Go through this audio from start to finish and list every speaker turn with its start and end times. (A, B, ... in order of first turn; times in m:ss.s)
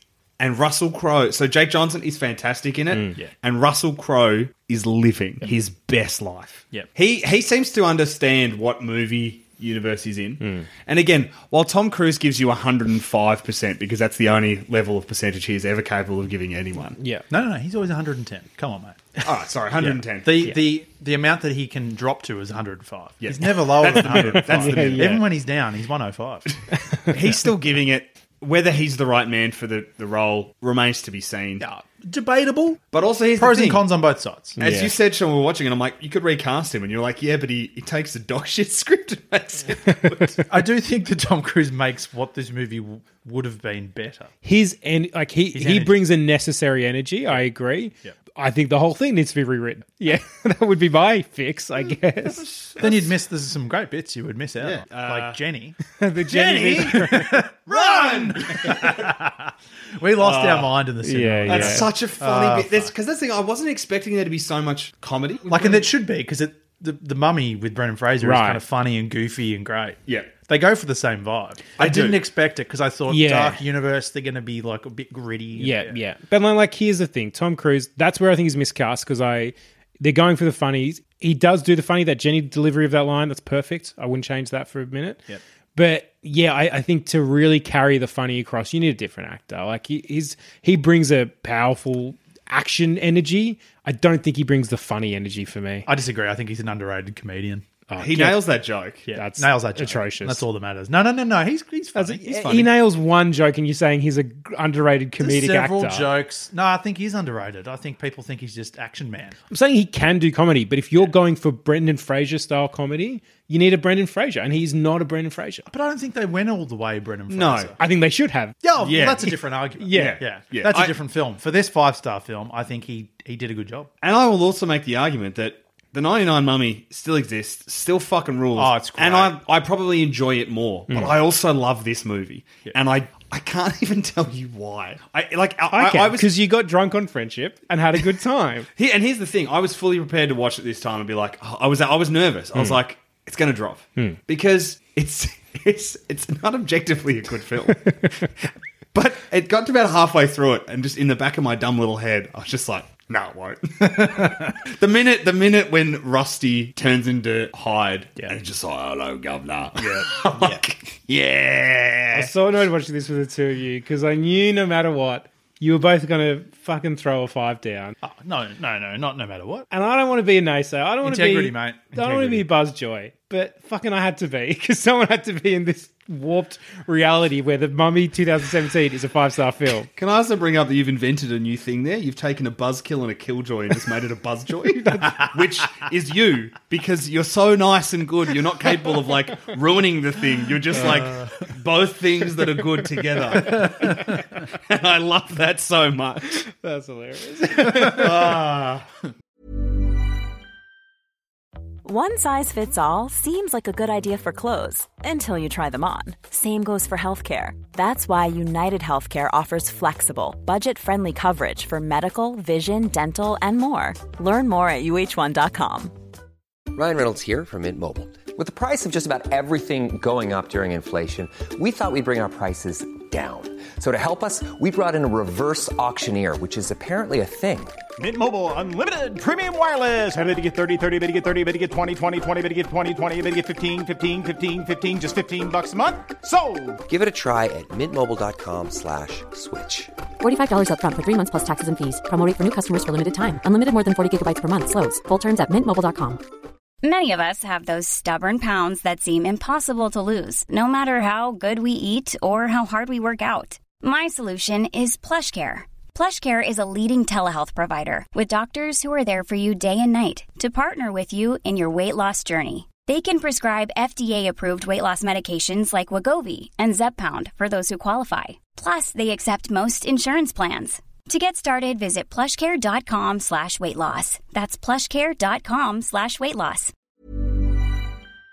0:00.4-0:17.0 A
0:10.4-0:10.7 B
0:17.0-0:17.3 B
0:17.3-0:19.2 C
0:19.2-0:20.4 A
0:19.9-0:20.6 B
0:20.2-0:26.5 C
0:23.2-0:25.2 A
0:24.0-0:25.2 B
0:27.1-0:31.6 A
0:31.6-0:32.8 C
0:32.9-0:33.9 A
0:33.4-0:34.6 C
0:34.6-0:34.9 B
0:34.6-0:40.4 A
0:39.9-0:40.4 B
0:40.5-0:44.3 C
0:44.4-0:52.4 B
0:45.5-0:46.0 C
0:52.3-0:53.2 A
0:52.8-0:55.8 C
0:54.6-0:55.4 A
0:56.0-0:57.4 B
0:56.3-0:59.2 A
0:56.7-1:02.9 C
1:00.2-1:00.7 A
1:01.0-1:01.9 B
1:01.5-1:05.9 A
1:05.5-1:16.0 C
1:08.2-1:08.6 B
1:11.8-1:12.2 A
1:13.1-1:13.6 B
1:15.6-1:25.2 B
1:25.8-1:35.9 B
1:35.9-1:37.6 C
1:37.9-1:38.4 B
1:38.0-1:39.0 A
1:39.1-1:42.7 C
1:39.1-1:40.4 B
1:42.0-1:46.1 B
1:45.2-1:49.4 C
1:49.5-1:55.7 B
1:55.7-1:57.8 C
1:57.3-1:57.7 A
1:57.8-1:58.6 B
1:58.6-2:03.9 C
1:58.8-1:59.4 A
1:59.8-2:00.2 B
1:59.9-2:00.9 A
2:04.0-2:16.3 A
2:08.6-2:09.4 C
2:15.7-2:18.7 B
2:18.8-2:28.0 A
2:27.8-2:28.1 B
2:28.9-2:42.3 A
2:39.8-2:40.6 C
2:42.1-2:48.0 B
2:48.0-2:49.7 C
2:49.7-2:59.9 B
2:51.0-2:52.5 C
3:00.0-3:16.4 A
3:04.9-3:05.1 B
3:16.5-3:18.1 B
3:17.6-3:18.8 A
3:21.8-3:35.9 D
3:36.7-3:47.7 E
3:48.0-3:56.8 F
3:56.9-3:59.9 E
4:00.2-4:06.2 G
4:06.8-4:36.7 H